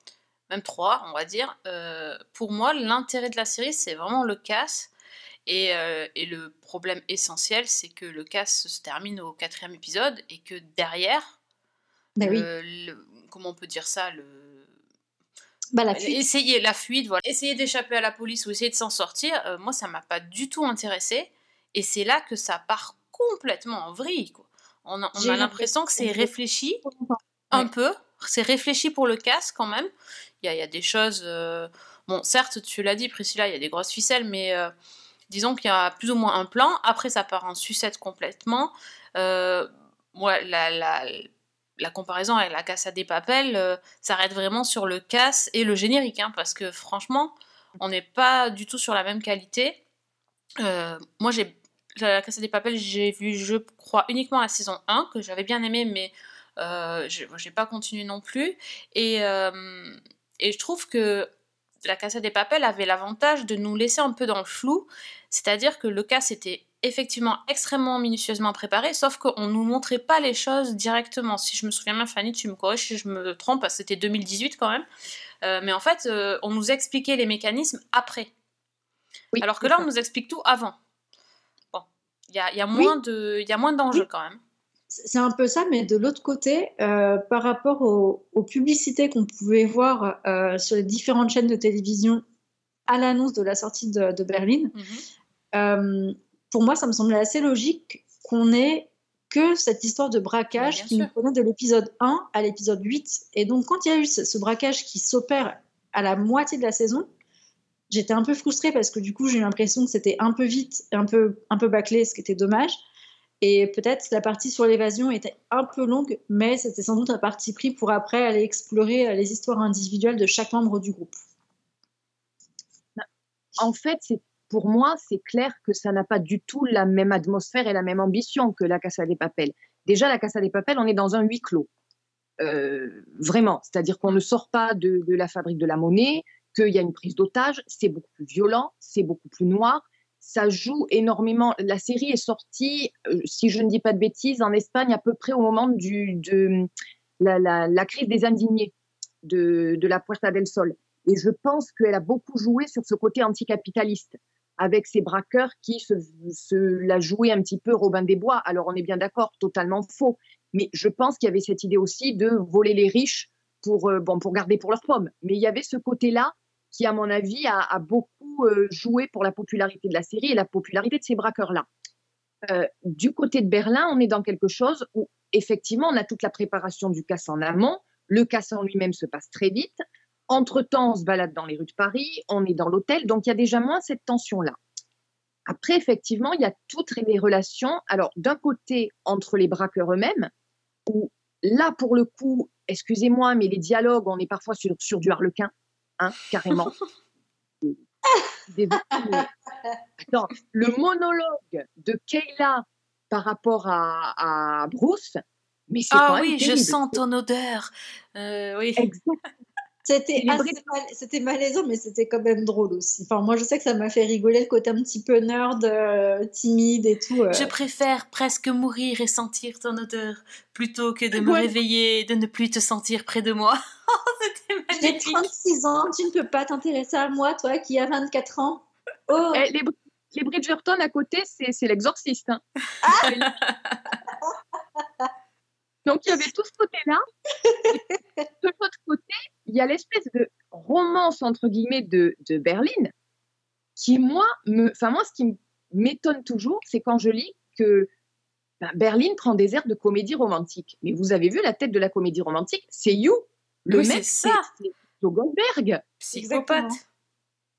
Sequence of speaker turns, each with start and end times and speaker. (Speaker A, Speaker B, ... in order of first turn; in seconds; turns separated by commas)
Speaker A: 0.5-4.9, Speaker A: 5.5-11.4, Speaker B: 12.2-12.5, Speaker A: 12.2-14.7, Speaker B: 15.7-16.3, Speaker A: 15.9-26.8, Speaker B: 25.2-26.3, Speaker B: 26.8-27.7, Speaker A: 27.5-29.9, Speaker A: 30.4-34.7, Speaker A: 35.3-41.3, Speaker A: 41.8-49.8, Speaker A: 50.6-61.3, Speaker A: 61.9-74.9, Speaker A: 75.4-78.3, Speaker C: 79.3-79.9, Speaker A: 79.4-80.8, Speaker A: 81.7-84.4, Speaker B: 84.9-92.2, Speaker B: 92.9-94.7, Speaker A: 94.8-95.0, Speaker B: 95.5-107.1, Speaker A: 100.6-101.1, Speaker B: 107.9-112.8, Speaker B: 113.4-121.2, Speaker C: 123.6-131.7, Speaker C: 132.4-146.7, Speaker C: 147.2-148.7, Speaker C: 149.2-171.7, Speaker C: 172.5-184.6, Speaker C: 185.5-190.3, Speaker C: 190.9-196.7, Speaker C: 198.5-199.3, Speaker B: 198.9-199.3, Speaker C: 200.0-207.0, Speaker A: 205.9-208.9, Speaker C: 208.8-209.2, Speaker B: 209.8-217.5, Speaker C: 210.2-210.6, Speaker A: 217.3-225.3, Speaker B: 221.2-221.5, Speaker B: 224.8-229.4, Speaker C: 229.3-232.4, Speaker C: 233.0-233.3, Speaker A: 233.2-233.9, Speaker C: 235.8-237.0, Speaker C: 238.4-242.9, Speaker C: 243.8-247.9, Speaker C: 248.6-255.8, Speaker A: 253.7-254.4, Speaker A: 256.0-256.8, Speaker B: 256.1-256.8